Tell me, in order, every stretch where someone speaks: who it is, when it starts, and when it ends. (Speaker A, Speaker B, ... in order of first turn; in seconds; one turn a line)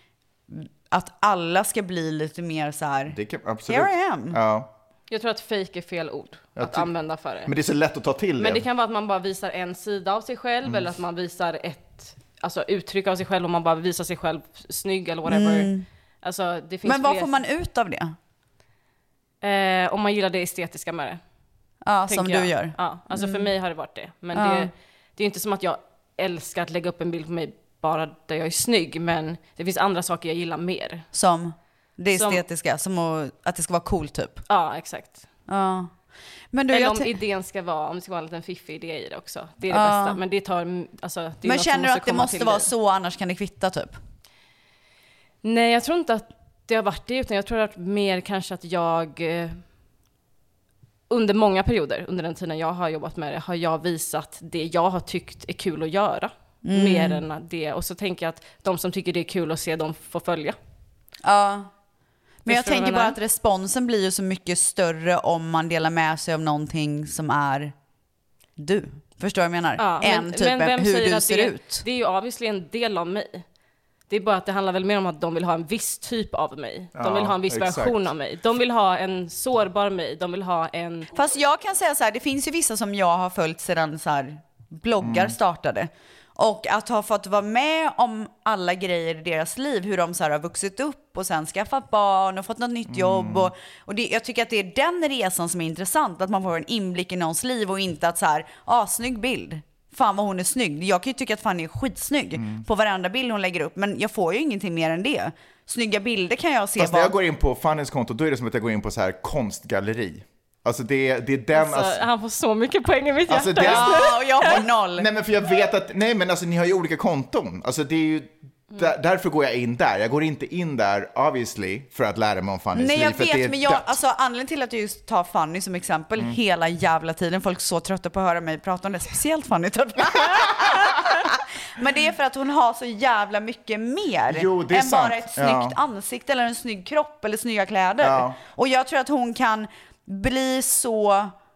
Speaker A: 0.5-3.2
Speaker B: 3.1-4.7
Speaker A: 3.7-4.4
Speaker C: 5.1-7.5
Speaker B: 6.6-6.9
Speaker B: 7.4-8.7
Speaker C: 8.4-15.7
Speaker A: 15.3-15.8
Speaker C: 16.2-17.3
Speaker A: 16.8-18.1
Speaker C: 19.4-21.2
Speaker A: 21.9-23.5
Speaker C: 22.1-31.1
Speaker A: 24.3-24.7
Speaker A: 31.1-34.4
Speaker C: 32.1-32.4
Speaker C: 34.5-35.2
Speaker A: 35.5-35.9
Speaker A: 36.5-37.1
Speaker C: 36.7-42.7
Speaker A: 39.7-40.2
Speaker A: 41.4-44.0
Speaker C: 45.4-49.6
Speaker C: 51.1-60.6
Speaker A: 56.6-57.2
Speaker A: 61.2-61.7
Speaker A: 62.5-67.7
Speaker C: 62.5-63.2
Speaker A: 68.6-71.8
Speaker C: 69.8-73.5
Speaker C: 74.1-81.1
Speaker B: 77.0-78.0
Speaker A: 81.1-107.1
Speaker B: 85.0-85.4
Speaker B: 92.9-93.5
Speaker B: 102.3-102.6
Speaker B: 106.8-112.0
Speaker C: 111.5-114.6
Speaker B: 113.3-124.0
Speaker A: 113.6-115.1
Speaker A: 122.7-141.3
Speaker B: 134.3-135.8
Speaker B: 138.0-138.4